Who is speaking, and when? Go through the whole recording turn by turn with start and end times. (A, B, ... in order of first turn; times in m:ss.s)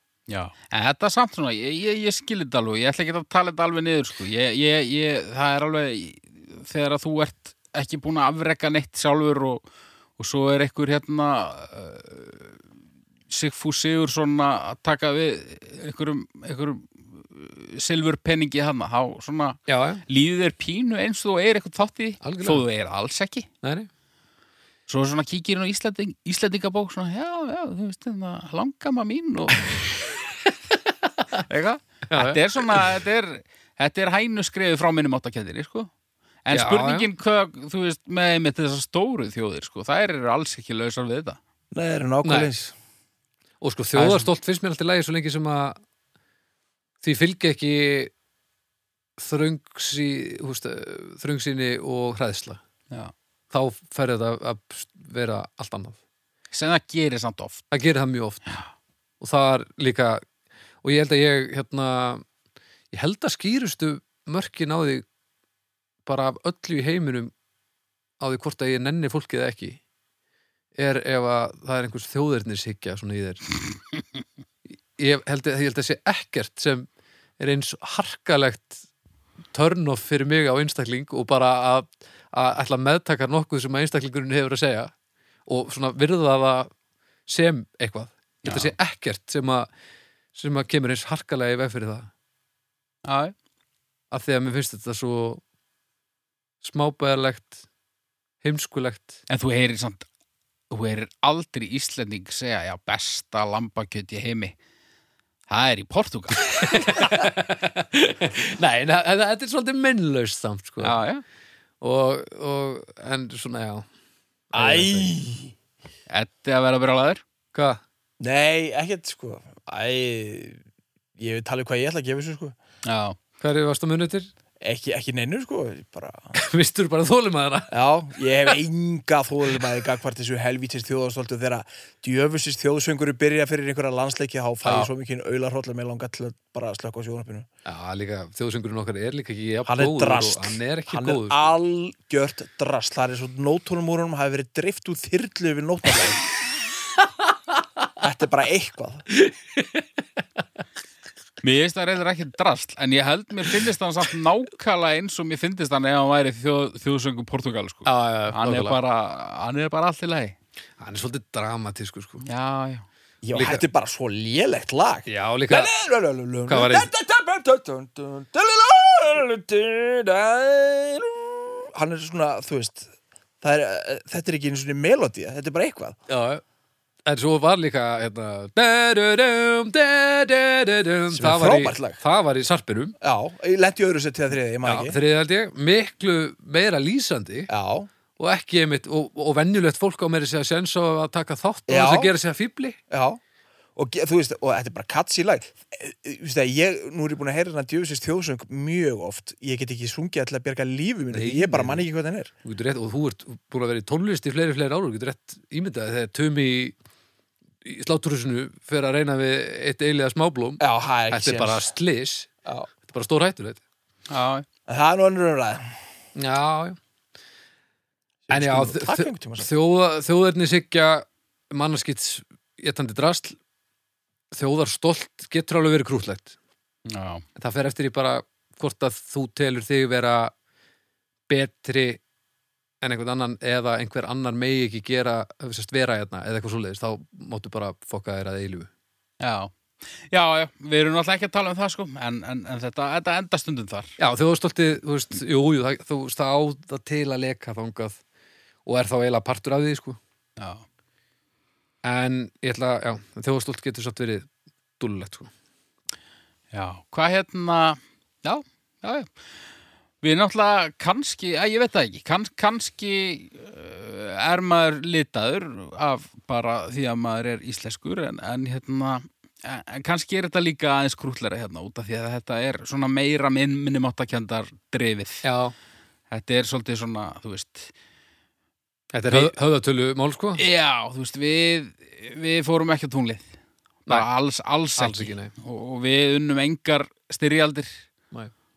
0:00.3-0:09.7 A
0:10.2-0:12.6 A
0:13.3-0:23.5 A
0:19.7-0:20.0 B
0:22.2-0:22.6 B
0:23.6-0:23.9 B
0:24.9-0:30.0 A
0:31.3-0:35.9 A
0:32.1-0:32.9 B
0:36.4-0:41.4 A
0:36.5-0:37.1 B
0:41.7-0:42.7 C
0:42.2-0:42.5 B
0:43.6-0:45.8 B
0:47.0-0:48.1 B
0:49.2-0:52.6 B
0:53.5-0:56.0 B
0:56.5-0:57.6 A
0:57.7-0:58.5 B
0:58.5-0:58.7 A
0:59.2-1:00.2 B
1:00.8-1:02.2 B
1:02.9-1:05.0 B
1:06.1-1:07.3 B
1:08.2-1:09.8 B
1:10.8-1:13.4 B
1:15.0-1:16.9 B
1:17.4-1:18.8 B
1:19.5-1:24.9 B
1:25.5-1:26.7 B
1:27.3-1:29.7 B
1:28.4-1:28.7 A
1:30.4-1:32.1 B
1:33.0-1:33.4 A
1:34.1-1:35.4 B
1:36.6-1:37.6 B
1:38.4-1:39.2 B
1:39.3-1:40.1 A
1:40.7-1:44.6 A
1:45.5-1:47.1 A
1:46.5-1:51.0 B
1:50.8-1:51.2 A
1:51.8-1:53.9 B
1:54.5-1:55.1 B
1:54.5-1:55.5 C
1:56.1-1:57.2 A
1:57.5-1:57.8 B
1:58.2-2:00.6 C
2:01.2-2:02.6 C
2:02.8-2:03.2 A
2:03.4-2:04.3 B
2:04.6-2:06.4 C
2:06.4-2:07.7 B
2:07.7-2:17.5 C
2:14.6-2:14.9 B
2:17.6-2:21.6 B
2:19.7-2:26.2 C
2:28.0-2:29.1 C
2:29.2-2:29.9 B
2:31.4-2:40.4 A
2:37.9-2:38.8 B
2:40.8-2:42.2 B
2:42.2-2:42.9 A
2:43.2-2:52.9 C
2:43.4-2:43.6 B
2:45.1-2:45.7 B
2:46.5-2:46.9 B
2:53.4-2:56.0 C
2:56.1-2:56.4 B
2:57.0-3:03.0 B
3:01.1-3:02.0 C
3:03.0-3:05.0 C
3:04.6-3:07.5 B
3:07.5-3:07.9 C
3:08.2-3:12.8 B
3:11.7-3:12.1 C
3:12.9-3:13.2 C
3:13.8-3:22.3 C
3:21.1-3:21.8 B
3:22.4-3:26.8 B
3:27.6-3:33.6 B
3:30.6-3:31.7 C
3:34.1-3:34.4 A
3:34.7-3:35.7 C
3:36.2-3:36.8 B
3:38.3-3:39.5 C
3:38.3-3:43.4 B
3:44.3-3:46.4 B
3:46.9-3:47.2 A
3:47.4-3:50.3 B
3:51.3-3:52.0 B
3:52.8-3:58.7 B
3:59.2-4:04.0 A
4:04.0-4:08.0 B
4:08.7-4:10.0 B
4:10.4-4:10.6 A
4:11.8-4:14.3 B
4:14.8-4:15.3 B
4:16.5-4:19.1 A
4:20.0-4:35.3 A
4:35.2-4:35.5 B
4:36.1-4:37.7 A
4:38.9-4:40.4 B
4:39.1-4:39.3 A
4:40.4-4:43.3 A
4:43.9-4:47.8 A
4:44.8-4:45.3 B